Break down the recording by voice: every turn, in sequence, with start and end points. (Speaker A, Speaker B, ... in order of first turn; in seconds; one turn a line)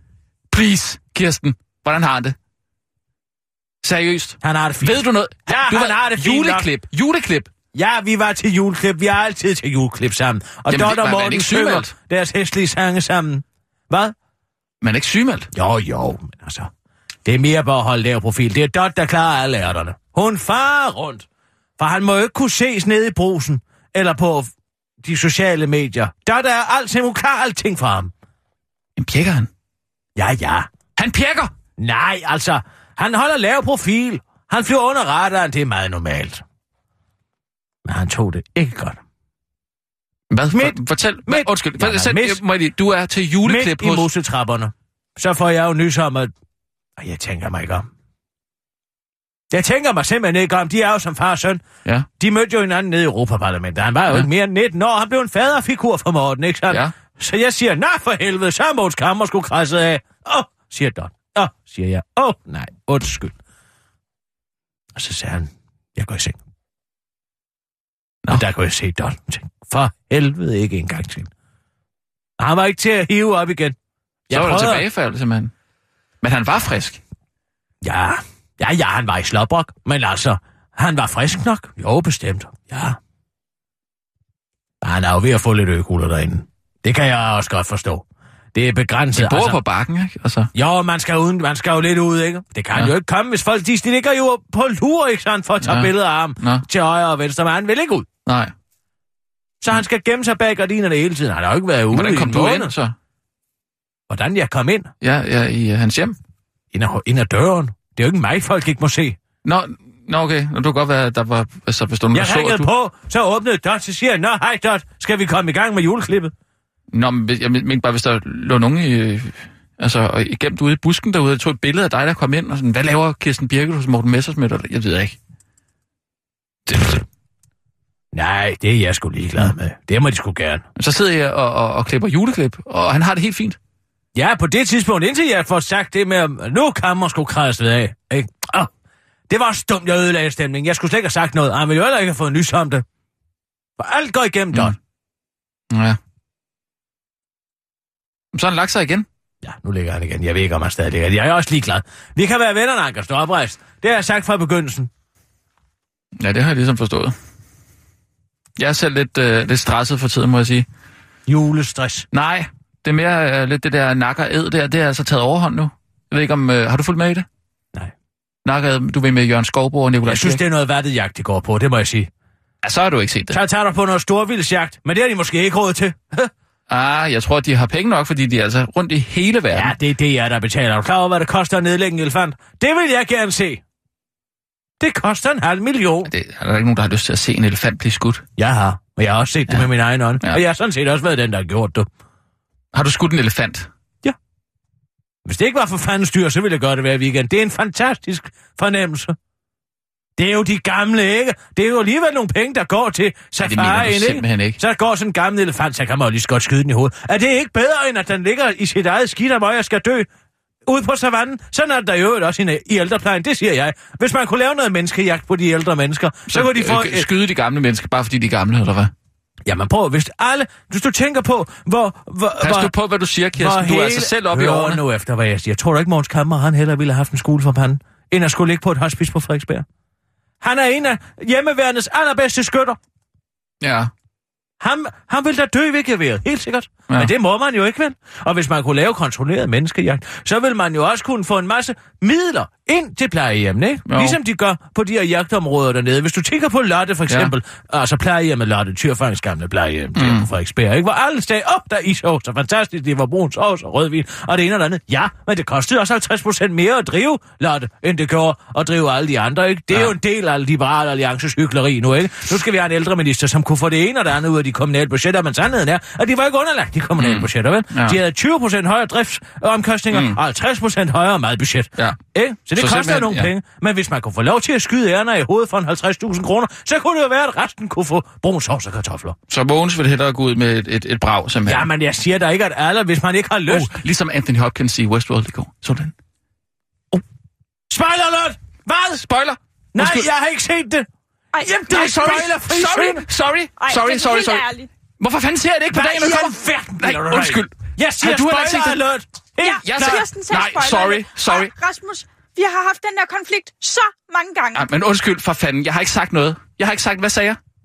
Speaker A: 0.5-2.4
Speaker A: 3.8-7.5
Speaker B: 4.4-6.7
Speaker B: 7.7-14.1
Speaker A: 10.7-11.9
Speaker A: 14.8-15.5
Speaker B: 15.5-16.7
Speaker B: 17.2-21.2
Speaker B: 21.8-24.5
Speaker B: 25.0-28.1
Speaker A: 29.0-29.5
Speaker B: 30.2-30.7
Speaker A: 30.9-31.5
Speaker B: 31.8-36.4
Speaker B: 37.9-39.0
Speaker A: 40.3-44.1
Speaker B: 40.5-42.4
Speaker B: 43.4-46.3
Speaker B: 47.0-47.9
Speaker B: 49.5-51.6
Speaker B: 52.2-63.4
Speaker A: 56.7-56.9
Speaker B: 64.9-66.4
Speaker B: 68.3-71.3
Speaker B: 72.4-73.8
Speaker B: 74.3-74.8
Speaker A: 74.3-75.5
Speaker A: 76.2-77.0
Speaker B: 77.8-83.0
Speaker B: 84.8-89.6
Speaker A: 89.1-90.5
Speaker B: 90.5-98.1
Speaker A: 95.6-96.7
Speaker A: 98.2-98.5
Speaker B: 99.6-102.7
Speaker A: 101.9-102.9
Speaker B: 104.1-104.9
Speaker A: 105.0-106.2
Speaker B: 106.7-109.2
Speaker A: 109.4-112.7
Speaker B: 112.1-116.3
Speaker A: 116.9-125.2
Speaker B: 126.7-127.0
Speaker B: 128.1-130.6
Speaker A: 130.8-133.6
Speaker B: 134.1-138.7
Speaker B: 139.3-142.8
Speaker B: 143.8-144.8
Speaker A: 145.7-146.0
Speaker A: 148.3-149.1
Speaker B: 149.4-154.9
Speaker A: 156.2-157.2
Speaker A: 158.6-160.7
Speaker B: 161.3-162.1
Speaker A: 162.1-167.2
Speaker A: 168.4-170.4
Speaker B: 170.1-172.1
Speaker A: 172.6-173.4
Speaker B: 173.3-176.3
Speaker A: 176.7-179.8
Speaker B: 179.5-183.6
Speaker B: 184.8-186.1
Speaker A: 186.0-188.2
Speaker B: 188.4-191.9
Speaker A: 192.7-193.7
Speaker B: 195.2-199.2
Speaker B: 200.2-210.1
Speaker A: 203.4-204.6
Speaker B: 210.7-217.1
Speaker A: 216.3-218.9
Speaker B: 219.4-222.7
Speaker A: 222.4-224.8
Speaker B: 223.3-229.6
Speaker B: 230.4-232.8
Speaker A: 233.6-233.9
Speaker B: 234.6-279.2
Speaker A: 243.9-244.2
Speaker A: 249.9-250.3
Speaker A: 267.0-268.0
Speaker A: 269.9-270.2
Speaker A: 272.6-273.3
Speaker A: 279.3-281.7
Speaker B: 281.4-283.7
Speaker A: 283.5-285.9
Speaker B: 287.7-289.0
Speaker A: 288.9-290.1
Speaker B: 289.7-290.9
Speaker C: 291.3-292.3
Speaker B: 291.4-293.0
Speaker A: 291.7-294.4
Speaker C: 293.6-294.7
Speaker A: 295.0-298.8
Speaker B: 295.7-300.0
Speaker C: 299.4-304.6
Speaker A: 299.6-301.5
Speaker A: 304.5-307.4